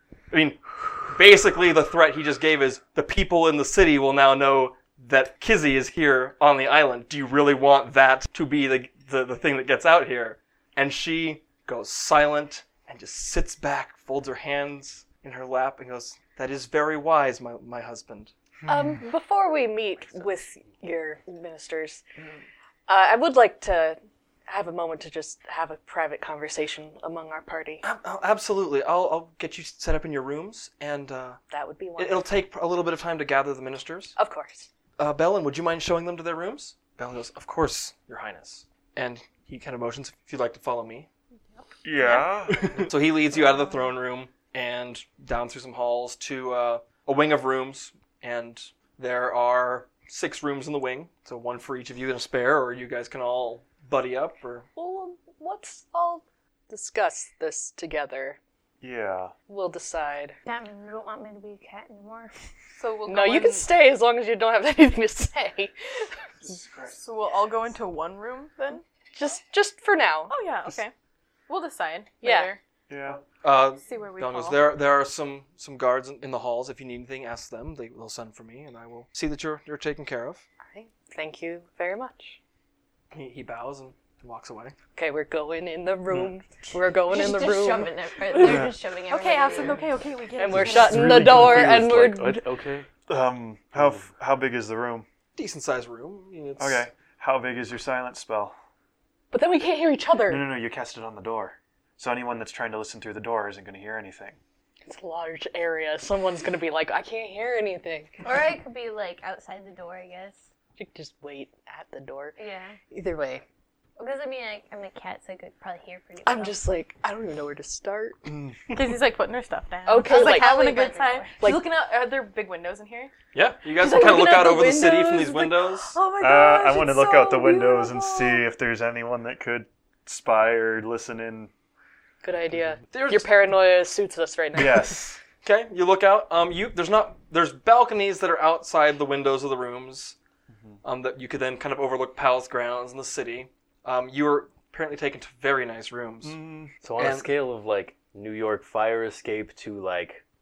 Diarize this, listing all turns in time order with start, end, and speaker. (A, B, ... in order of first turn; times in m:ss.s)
0:00.3-0:18.3 A
0:18.6-0:19.0 B
0:18.7-0:22.0 C
0:22.9-0:24.0 C
0:24.5-0:27.8 C
0:27.8-0:31.4 A
0:31.5-0:32.3 C
0:32.0-0:34.2 A
0:34.2-0:34.7 C
0:35.0-0:41.1 A
0:41.5-0:42.3 D
0:41.8-0:42.8 B
0:42.7-0:54.7 A
0:54.8-0:58.4 C
0:58.8-0:59.3 B
0:59.5-1:00.4 C
1:00.4-1:02.3 E
1:02.8-1:03.7 D
1:03.1-1:05.7 C
1:06.4-1:07.0 B
1:06.9-1:08.8 D
1:09.1-1:10.4 C
1:10.3-1:10.9 D
1:11.5-1:12.6 D
1:12.2-1:12.5 C
1:12.9-1:13.2 B
1:13.3-1:20.4 A
1:13.8-1:14.6 D
1:20.7-1:22.4 C
1:23.1-1:24.8 A
1:25.0-1:27.9 C
1:27.0-1:29.9 E
1:28.4-1:28.8 B
1:28.5-1:31.2 D
1:30.4-1:32.5 C
1:30.5-1:32.9 F
1:33.1-1:35.1 B
1:35.4-1:36.8 A
1:36.6-1:38.6 B
1:39.3-1:40.5 C
1:40.3-1:44.4 B
1:44.8-1:48.2 C
1:48.2-1:50.4 E
1:50.8-1:52.4 C
1:52.4-1:52.8 E
1:52.9-1:53.4 C
1:54.0-1:56.6 E
1:56.2-1:58.2 C
1:58.3-1:58.7 B
1:58.7-2:03.1 D
1:59.9-2:00.6 C
1:59.9-2:01.4 E
2:03.3-2:06.0 A
2:03.8-2:05.5 C
2:03.9-2:04.7 D
2:06.0-2:08.4 D
2:06.2-2:11.5 B
2:12.2-2:15.1 C
2:12.9-2:13.3 A
2:14.6-2:15.2 B
2:15.4-2:20.2 A
2:20.5-2:20.8 B
2:20.8-2:26.4 A
2:26.2-2:26.7 B
2:26.8-2:30.2 F
2:27.0-2:27.3 A